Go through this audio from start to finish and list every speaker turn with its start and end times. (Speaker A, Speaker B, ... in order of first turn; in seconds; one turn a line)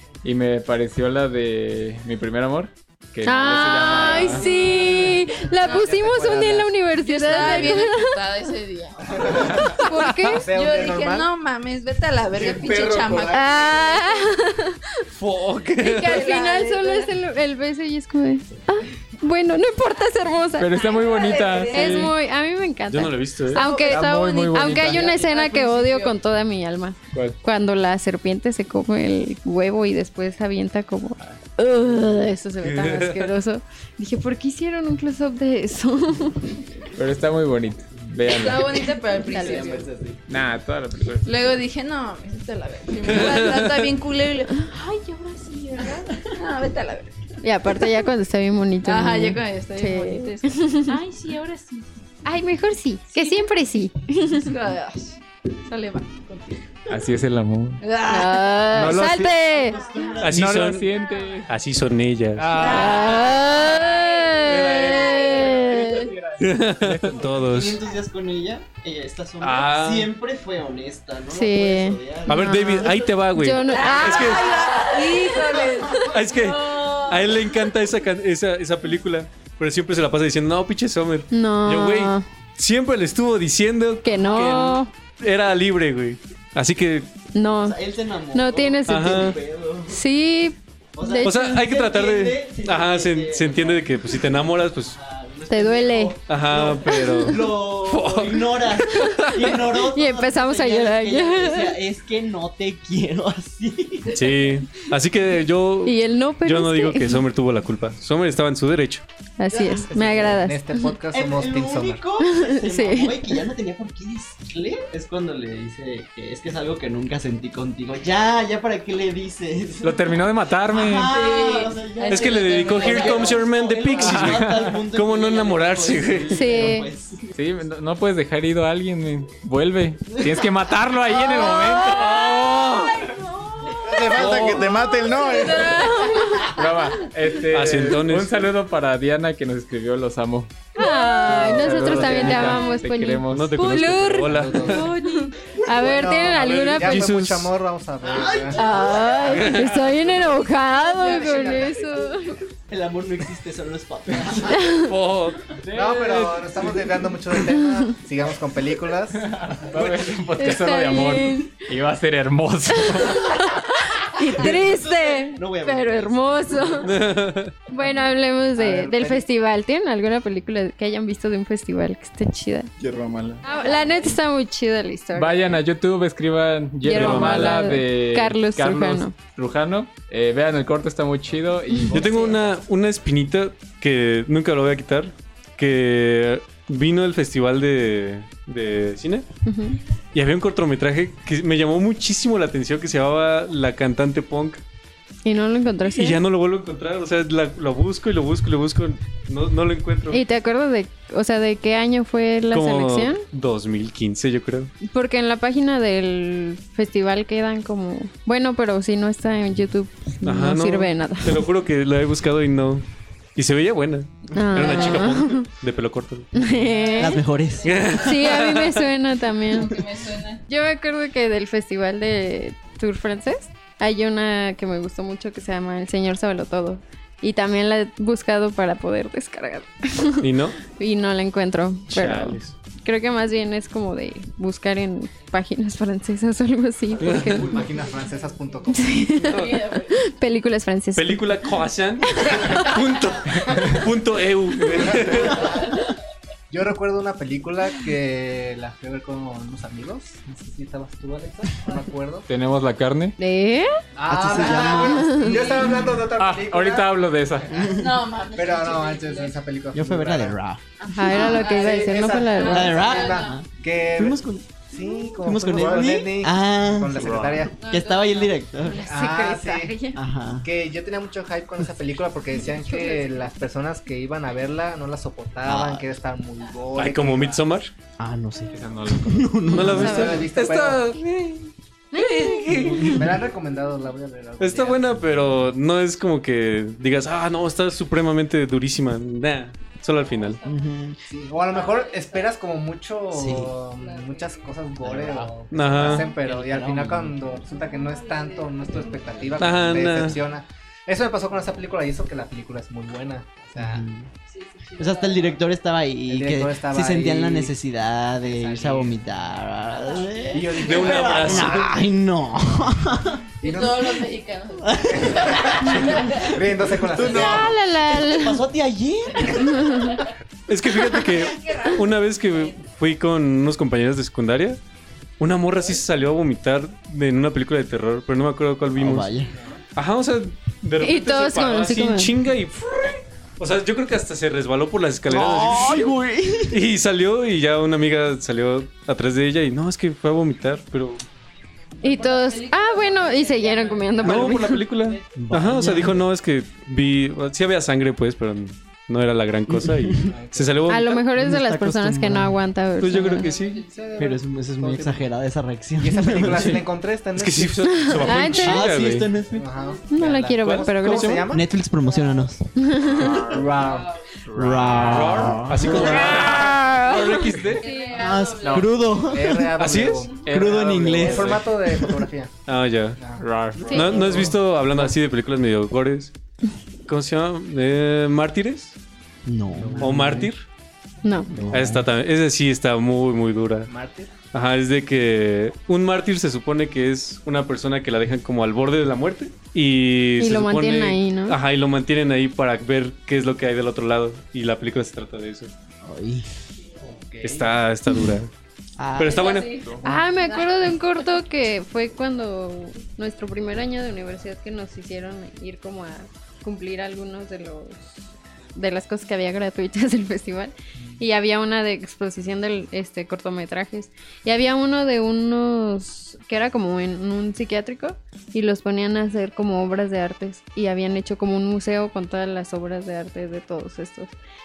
Speaker A: 0.2-4.4
Speaker B: 3.2-8.2
Speaker C: 4.0-5.3
Speaker D: 4.8-6.7
Speaker C: 7.0-14.2
Speaker D: 9.2-9.8
Speaker B: 9.5-10.5
Speaker D: 10.3-11.3
Speaker E: 12.3-14.0
Speaker B: 13.3-14.9
Speaker F: 15.1-16.2
Speaker B: 15.8-36.6
Speaker C: 16.0-17.1
Speaker A: 20.6-22.1
Speaker C: 20.7-22.1
Speaker F: 22.9-23.6
Speaker C: 23.5-26.2
Speaker A: 23.7-25.1
Speaker A: 27.1-27.4
Speaker F: 32.6-33.3
Speaker A: 37.0-38.8
Speaker C: 38.3-39.9
Speaker G: 39.2-40.2
Speaker B: 39.3-39.8
Speaker A: 40.3-41.5
Speaker C: 41.2-47.1
Speaker F: 43.0-43.9
Speaker B: 47.4-51.0
Speaker C: 48.8-51.9
Speaker B: 52.2-54.5
Speaker C: 53.1-53.5
Speaker C: 54.4-56.8
Speaker A: 56.9-57.8
Speaker C: 57.8-60.3
Speaker B: 58.1-59.8
Speaker A: 58.7-59.3
Speaker G: 59.4-60.6
Speaker F: 60.2-60.9
Speaker A: 60.2-61.5
Speaker C: 60.9-61.5
Speaker F: 61.5-62.8
Speaker A: 62.4-63.3
Speaker C: 62.5-65.8
Speaker B: 62.6-66.1
Speaker A: 64.4-67.4
Speaker F: 66.4-67.8
Speaker G: 67.3-72.5
Speaker F: 69.4-70.1
Speaker B: 71.3-75.7
Speaker F: 72.3-74.5
Speaker C: 73.6-77.7
Speaker F: 76.0-87.1
Speaker B: 81.3-82.2
Speaker B: 84.0-84.9
Speaker B: 87.3-87.8
Speaker G: 87.6-90.0
Speaker B: 88.3-91.6
Speaker F: 88.8-89.4
Speaker G: 90.9-104.3
Speaker F: 91.2-95.0
Speaker B: 95.5-96.2
Speaker F: 96.3-99.6
Speaker B: 96.8-97.5
Speaker B: 98.9-101.8
Speaker F: 104.1-109.0
Speaker B: 105.8-107.2
Speaker B: 109.4-110.9
Speaker D: 109.5-112.0
Speaker G: 111.1-127.3
Speaker B: 112.2-113.4
Speaker A: 119.8-121.1
Speaker C: 121.1-121.8
Speaker B: 122.0-123.3
Speaker F: 122.1-126.7
Speaker C: 122.8-123.2
Speaker A: 124.0-124.8
Speaker B: 126.3-126.9
Speaker A: 127.3-132.0
Speaker G: 130.1-130.4
Speaker B: 131.1-132.1
Speaker C: 131.3-136.6
Speaker F: 131.9-133.0
Speaker E: 133.8-135.8
Speaker F: 134.3-134.6
Speaker B: 135.5-136.5
Speaker A: 136.5-140.5
Speaker F: 137.5-138.4
Speaker B: 140.8-147.1
Speaker A: 141.2-143.6
Speaker F: 143.3-144.8
Speaker D: 144.3-144.9
Speaker C: 144.7-145.3
Speaker D: 145.8-148.7
Speaker F: 146.7-147.5
Speaker G: 148.0-149.4
Speaker B: 148.5-152.4
Speaker F: 149.2-149.9
Speaker A: 149.8-150.2
Speaker C: 150.6-152.3
Speaker G: 152.7-154.8
Speaker B: 154.5-154.9
Speaker F: 154.8-155.4
Speaker A: 155.6-156.4
Speaker D: 155.7-159.2
Speaker F: 156.1-156.4
Speaker B: 157.5-157.9
Speaker A: 159.1-163.4
Speaker B: 160.4-161.5
Speaker B: 162.8-166.9
Speaker G: 164.3-166.9
Speaker F: 166.8-167.6
Speaker B: 167.7-172.7
Speaker D: 168.6-169.2
Speaker E: 172.8-173.4
Speaker B: 173.4-175.6
Speaker C: 173.4-174.2
Speaker A: 175.1-182.1
Speaker B: 176.8-179.1
Speaker F: 176.9-177.8
Speaker B: 181.7-182.3
Speaker F: 181.9-189.2
Speaker G: 181.9-182.5
Speaker B: 189.4-189.8
Speaker F: 190.1-194.6
Speaker B: 195.2-196.2
Speaker F: 195.8-200.2
Speaker B: 200.1-203.2
Speaker F: 202.5-204.7
Speaker B: 204.8-211.4
Speaker F: 210.2-212.8
Speaker F: 213.3-216.3
Speaker B: 214.3-215.5
Speaker G: 214.5-215.1
Speaker B: 216.3-217.2
Speaker C: 216.5-218.3
Speaker G: 217.0-217.9
Speaker F: 217.6-218.9
Speaker B: 218.0-219.8
Speaker C: 219.5-220.4
Speaker B: 220.5-237.6
Speaker F: 230.2-230.6
Speaker F: 231.9-232.5
Speaker F: 237.0-237.5
Speaker D: 237.2-239.1
Speaker C: 237.4-240.0
Speaker B: 238.7-242.8
Speaker F: 239.3-239.6
Speaker F: 240.9-245.6
Speaker D: 244.7-245.6
Speaker D: 246.5-252.3
Speaker A: 252.3-253.2
Speaker B: 253.2-253.8
Speaker D: 253.9-257.0
Speaker G: 254.1-256.0
Speaker B: 254.7-255.8
Speaker A: 256.2-257.6
Speaker G: 257.5-258.0
Speaker C: 257.6-259.4
Speaker D: 258.3-260.4
Speaker G: 259.7-260.6
Speaker C: 260.8-263.4
Speaker B: 260.9-262.9
Speaker D: 261.2-267.6
Speaker G: 262.5-264.7
Speaker G: 265.2-268.8
Speaker E: 265.5-266.0
Speaker F: 267.0-267.3
Speaker C: 267.5-268.4
Speaker B: 268.6-270.0
Speaker D: 268.8-269.8
Speaker G: 269.9-270.5
Speaker D: 270.4-277.5
Speaker B: 272.5-273.3
Speaker G: 275.4-275.9
Speaker F: 276.7-277.7
Speaker G: 278.0-280.3
Speaker A: 278.5-279.6
Speaker B: 279.5-280.2
Speaker F: 279.5-283.1
Speaker D: 279.6-280.9
Speaker B: 281.9-282.8
Speaker G: 282.5-283.1
Speaker D: 282.6-285.4
Speaker F: 284.4-290.4
Speaker C: 289.9-290.7
Speaker G: 290.4-291.0
Speaker D: 291.1-303.9
Speaker C: 291.4-292.4
Speaker G: 293.1-293.5
Speaker C: 293.7-294.6
Speaker G: 294.8-297.1
Speaker F: 295.5-296.1
Speaker C: 297.5-299.4
Speaker F: 299.4-300.2
Speaker G: 303.6-304.1
Speaker C: 304.3-305.4
Speaker G: 304.8-313.2
Speaker D: 306.1-307.6
Speaker D: 308.2-308.9
Speaker C: 309.7-310.2
Speaker D: 310.3-311.9
Speaker F: 310.6-311.7
Speaker C: 313.4-316.4
Speaker D: 313.4-314.1
Speaker G: 314.6-319.7
Speaker D: 316.3-317.6
Speaker E: 317.0-317.4
Speaker B: 317.1-318.4
Speaker C: 319.2-320.1
Speaker B: 319.3-320.0
Speaker F: 320.5-324.6
Speaker C: 320.8-322.7
Speaker F: 325.2-329.1
Speaker G: 328.8-329.3
Speaker D: 329.3-329.6
Speaker F: 329.8-335.9
Speaker B: 330.8-332.1
Speaker G: 335.1-336.6
Speaker F: 336.5-341.0
Speaker C: 341.8-345.2
Speaker B: 341.8-344.7
Speaker F: 344.0-351.1
Speaker G: 345.1-346.1
Speaker G: 349.5-350.1
Speaker D: 350.0-350.7
Speaker B: 350.7-353.3
Speaker G: 351.1-352.4
Speaker F: 352.8-353.6
Speaker C: 352.9-354.2
Speaker D: 353.7-355.1
Speaker G: 354.0-356.6
Speaker D: 355.8-358.3
Speaker F: 357.1-359.1
Speaker B: 357.7-358.7
Speaker G: 358.0-359.8
Speaker D: 359.3-361.5
Speaker B: 359.9-361.3
Speaker F: 360.4-361.3
Speaker G: 361.2-363.3
Speaker B: 362.6-363.1
Speaker D: 362.9-363.9
Speaker C: 363.0-365.0
Speaker A: 364.2-367.5
Speaker G: 364.3-366.4
Speaker F: 364.9-367.6
Speaker C: 365.7-366.3
Speaker B: 365.7-368.1
Speaker C: 367.4-369.2
Speaker G: 367.9-369.6
Speaker A: 368.4-368.9
Speaker D: 369.0-372.3
Speaker F: 369.6-370.2
Speaker A: 370.1-371.6
Speaker G: 370.2-371.9
Speaker F: 372.4-373.0
Speaker D: 373.0-373.3
Speaker A: 373.2-373.8
Speaker G: 373.6-374.4
Speaker F: 373.7-376.1
Speaker B: 373.7-374.1
Speaker D: 373.9-374.9
Speaker F: 376.9-378.8
Speaker G: 379.2-380.3
Speaker D: 379.6-380.3
Speaker F: 379.8-380.4
Speaker B: 381.0-381.3
Speaker G: 381.3-381.9
Speaker F: 381.5-383.7
Speaker D: 383.6-384.1
Speaker F: 384.3-395.5
Speaker B: 390.2-391.4
Speaker G: 395.8-396.3
Speaker D: 396.8-397.6
Speaker F: 397.2-398.3
Speaker G: 398.8-399.3
Speaker F: 399.0-399.6
Speaker C: 399.0-400.5
Speaker B: 399.8-408.0
Speaker B: 408.5-424.1
Speaker D: 410.7-411.0